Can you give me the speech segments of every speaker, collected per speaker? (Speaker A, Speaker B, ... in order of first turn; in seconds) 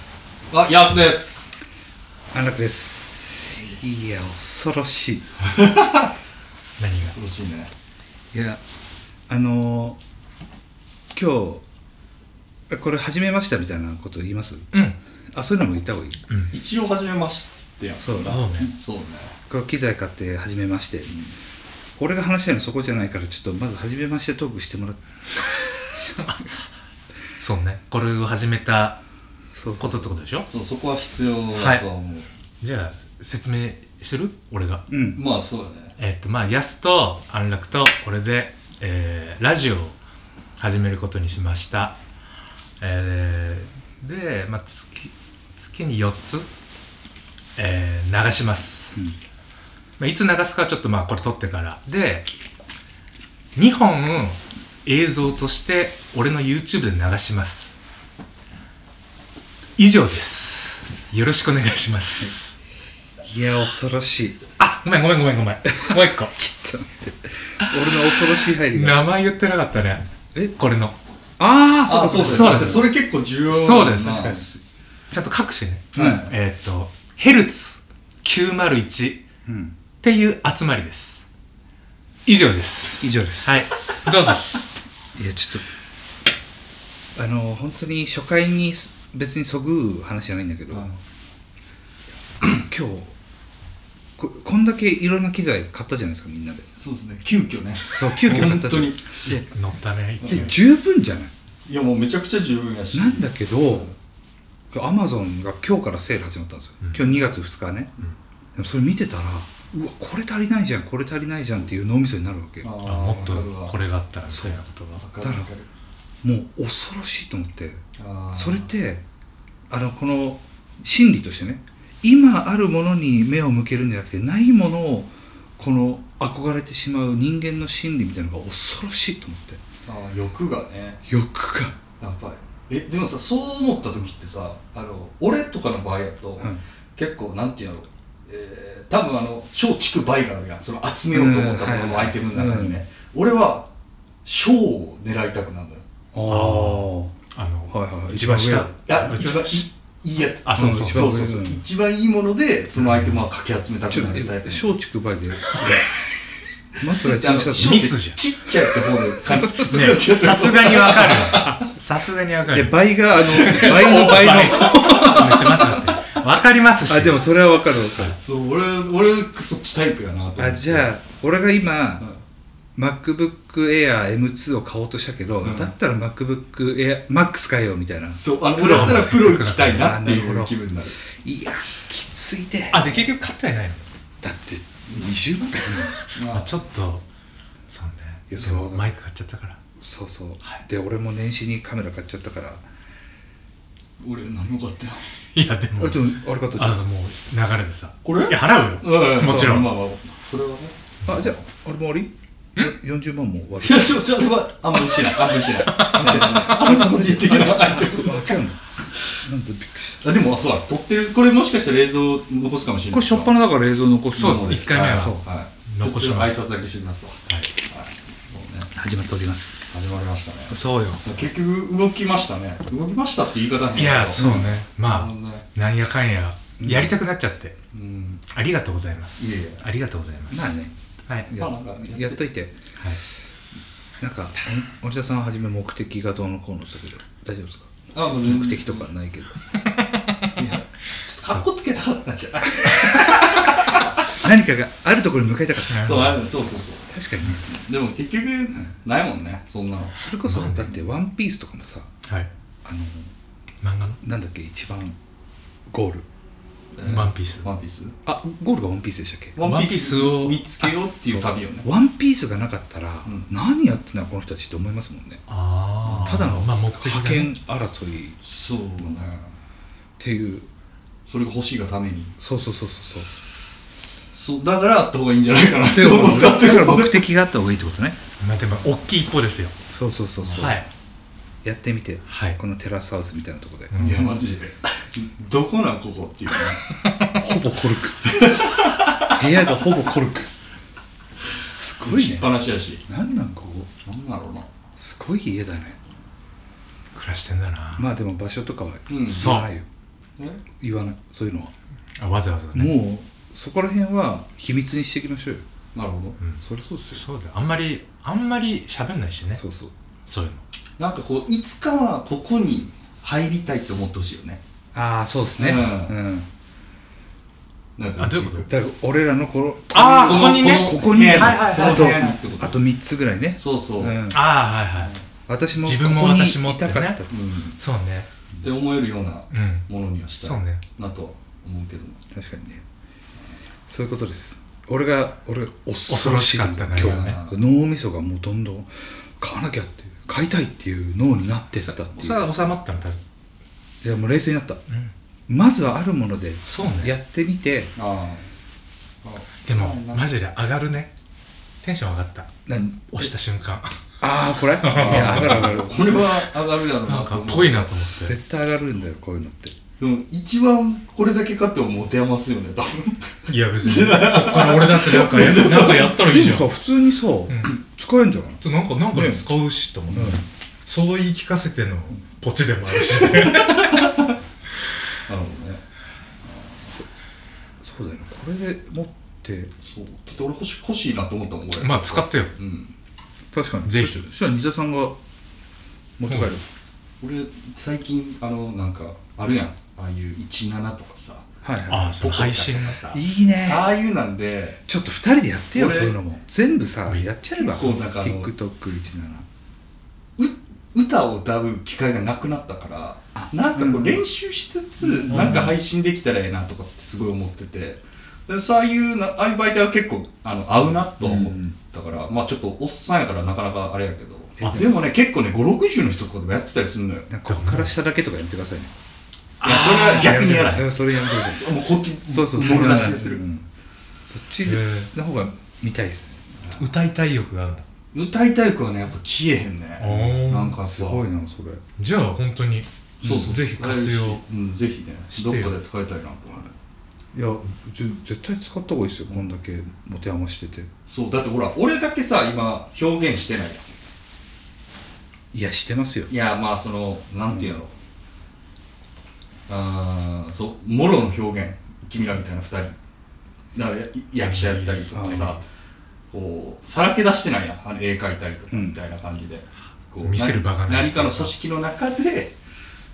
Speaker A: 0.5-1.5, 5.4-6.1, 7.0-7.7, 16.5-19.3, 30.5-32.3, 35.1-36.0, 71.8-74.5, 90.7-91.0, 96.8-99.2, 100.2-100.5, 101.7-103.9, 112.6-113.8, 115.0-115.7, 118.0-118.7, 129.8-131.0, 132.0-143.7, 144.2-145.8, 148.9-154.7, 156.9-161.6, 163.3-165.3, 168.1-170.9, 175.4-175.7, 178.1-180.9, 186.1-186.5, 194.0-195.1, 198.0-200.8, 203.6-208.4, 210.0-213.3, 214.2-218.7, 219.7-225.4, 227.7-228.2, 229.2-229.6, 231.3-232.2, 237.9-238.9, 240.3-243.5, 245.8-250.0, 256.7-257.9, 259.4-261.7, 265.8-266.2, 268.2-269.3, 271.1-272.1, 274.1-277.1, 283.8-286.6, 288.0-289.1, 291.8-292.8, 293.8-294.5, 298.9-299.3, 305.7-306.2, 310.8-314.4, 315.4-315.9, 317.8-318.5, 320.0-322.6, 323.4-324.0, 327.1-327.6, 328.4-332.0, 336.8-337.4, 347.8-348.3, 349.0-350.1, 354.7-357.8, 359.8-366.0, 373.0-374.1, 375.1-375.6, 376.2-376.7, 379.6-382.7, 387.0-391.3, 391.8-394.6, 395.5-396.0, 397.3-398.3, 400.2-417.1, 419.4-423.2, 426.4-426.7, 427.9-431.0, 433.0-436.5, 440.9-443.6, 446.1-447.7, 449.5-452.8, 453.5-455.4, 456.1-462.3
Speaker B: 2.3-5.3, 8.3-8.6, 9.3-10.0, 11.1-11.6, 12.7-14.7, 15.3-16.2, 18.0-18.7, 19.5-21.3, 22.0-25.0, 29.6-30.1, 34.9-35.2, 63.2-64.4, 65.7-69.0, 71.4-72.8, 74.0-74.5, 76.0-76.3, 79.5-79.8, 83.0-83.7, 85.2-85.6, 87.2-90.9, 92.4-93.1, 94.2-96.7, 97.9-99.5, 100.2-101.3, 102.9-103.9, 104.7-108.0, 108.5-112.7, 114.3-114.6, 115.2-115.5, 116.2-117.8, 118.3-119.0, 119.7-129.6, 131.1-131.8, 141.1-142.8, 146.1-147.1, 147.7-148.7, 150.5-151.6, 153.9-155.9, 156.8-157.9, 162.5-165.9, 166.9-168.1, 170.4-172.1, 172.8-180.6, 181.2-183.0, 184.2-186.0, 188.3-188.9, 189.8-192.6, 195.8-196.8, 199.2-199.6, 201.0-204.1, 205.8-208.6, 209.1-210.0, 212.9-215.2, 218.7-219.9, 220.5-221.1, 224.2-224.5, 226.6-226.9, 230.3-230.7, 231.2-232.6, 234.0-239.3, 242.6-243.4, 244.1-246.0, 246.9-247.5, 249.9-251.9, 252.6-253.1, 254.0-255.0, 255.7-256.1, 258.0-259.4, 261.0-265.2, 266.0-268.2, 270.0-270.5, 272.2-273.1, 275.7-278.0, 279.7-280.6, 281.4-283.8, 287.1-288.3, 289.1-290.3, 291.5-292.3, 292.9-293.7, 294.8-295.8, 297.8-299.6, 300.6-301.5, 302.5-305.4, 306.4-307.0, 309.4-309.7, 314.7-316.3, 318.5-324.2, 325.3-327.1, 332.1-332.6, 333.7-342.3, 343.8-344.6, 345.3-347.7, 352.5-353.1, 354.0-356.1, 358.0-359.5, 365.7-369.2, 369.9-370.2, 377.6-379.5, 383.3-385.0, 386.0-386.4, 391.4-392.0, 392.9-393.7, 394.7-399.2, 403.1-404.0, 404.8-405.6, 411.0-411.5, 414.4-414.7, 417.1-418.7, 419.4-421.5, 422.1-423.5, 424.1-426.2, 430.6-431.6, 433.0-433.3, 437.1-440.7, 445.3-446.1, 454.9-455.3
Speaker C: 6.8-7.1, 16.3-16.5, 18.2-18.7, 26.2-26.5, 27.4-29.0, 29.8-30.5, 31.6-31.9, 32.6-34.9, 36.0-40.0, 40.6-42.0, 42.8-46.5, 47.6-49.0, 50.0-52.3, 53.5-57.8, 59.8-62.5, 64.6-66.3, 67.7-71.0, 72.2-72.9, 73.5-74.5, 75.1-79.2, 80.0-81.2, 82.2-84.5, 98.3-98.7, 99.2-100.6, 112.8-115.0, 146.3-149.7, 150.4-151.2, 152.8-153.2, 157.5-158.2, 159.5-167.3, 178.7-179.9, 182.7-183.9, 186.3-187.0, 187.7-189.6, 195.3-199.7, 204.9-206.3, 214.2-216.4, 223.8-227.6, 228.3-230.5, 239.6-240.3, 245.7-246.2, 250.2-250.8, 253.6-254.0, 256.8-257.5, 259.4-260.4, 265.3-267.3, 278.2-279.5, 280.4-280.6, 282.1-282.4, 283.7-284.1, 296.9-297.9, 299.1-299.5, 302.0-302.8, 306.9-309.4, 310.1-310.4, 318.0-318.5, 319.7-322.2, 324.1-324.9, 325.6-327.0, 327.6-328.1, 329.3-329.7, 330.2-330.6, 335.9-337.2, 341.6-343.0, 344.7-344.9, 346.5-346.9, 349.4-350.9, 351.6-353.8, 354.6-355.6, 356.8-358.2, 363.3-366.4, 367.3-367.5, 368.4-374.0, 381.6-382.3, 383.6-384.0, 386.1-386.3, 391.7-392.9, 405.1-405.5, 417.3-417.7, 419.4-420.6, 424.4-424.9, 426.6-427.6, 429.8-430.6, 431.8-434.2, 435.1-435.5, 454.2-455.4, 460.0-461.3